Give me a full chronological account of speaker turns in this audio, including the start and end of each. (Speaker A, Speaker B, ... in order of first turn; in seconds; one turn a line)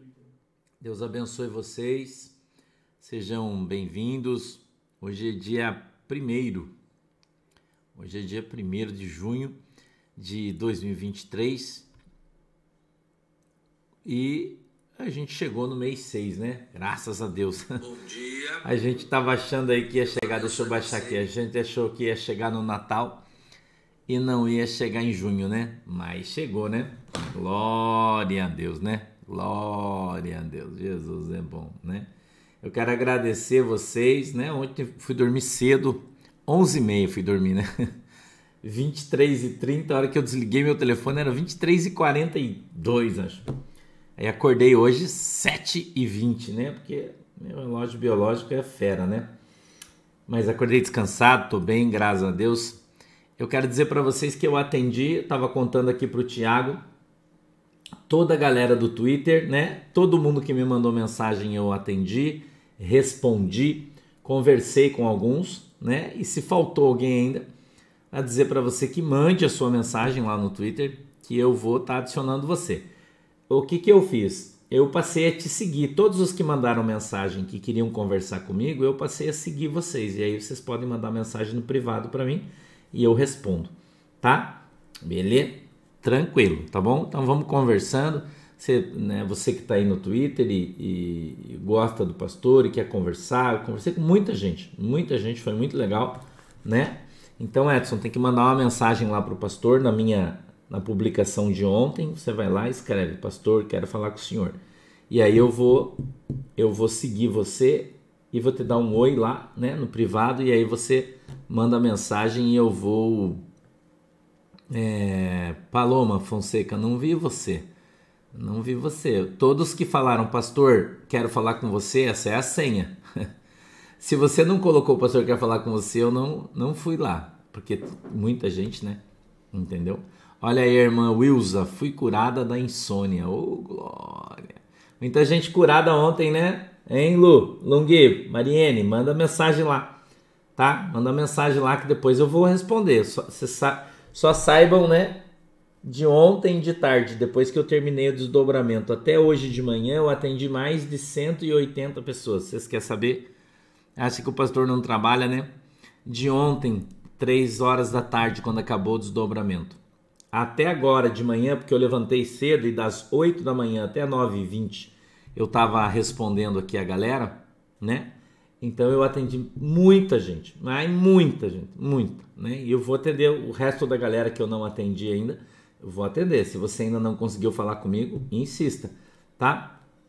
Speaker A: 0.8-2.4
Speaker A: 3.0-6.7
Speaker A: 7.9-9.6
Speaker A: 10.2-11.9
Speaker A: 14.0-23.2
Speaker A: 24.1-32.1
Speaker A: 32.6-37.7
Speaker A: 38.6-43.4
Speaker A: 44.2-49.3
Speaker A: 50.3-52.8
Speaker A: 53.4-56.8
Speaker A: 58.1-67.4
Speaker A: 68.1-72.9
Speaker A: 73.5-104.6
Speaker A: 105.1-106.0
Speaker A: 106.6-113.4
Speaker A: 114.7-117.7
Speaker A: 118.3-123.2
Speaker A: 124.0-129.0
Speaker A: 129.5-139.9
Speaker A: 140.6-145.2
Speaker A: 145.8-153.3
Speaker A: 153.9-155.5
Speaker A: 156.0-159.8
Speaker A: 160.3-179.8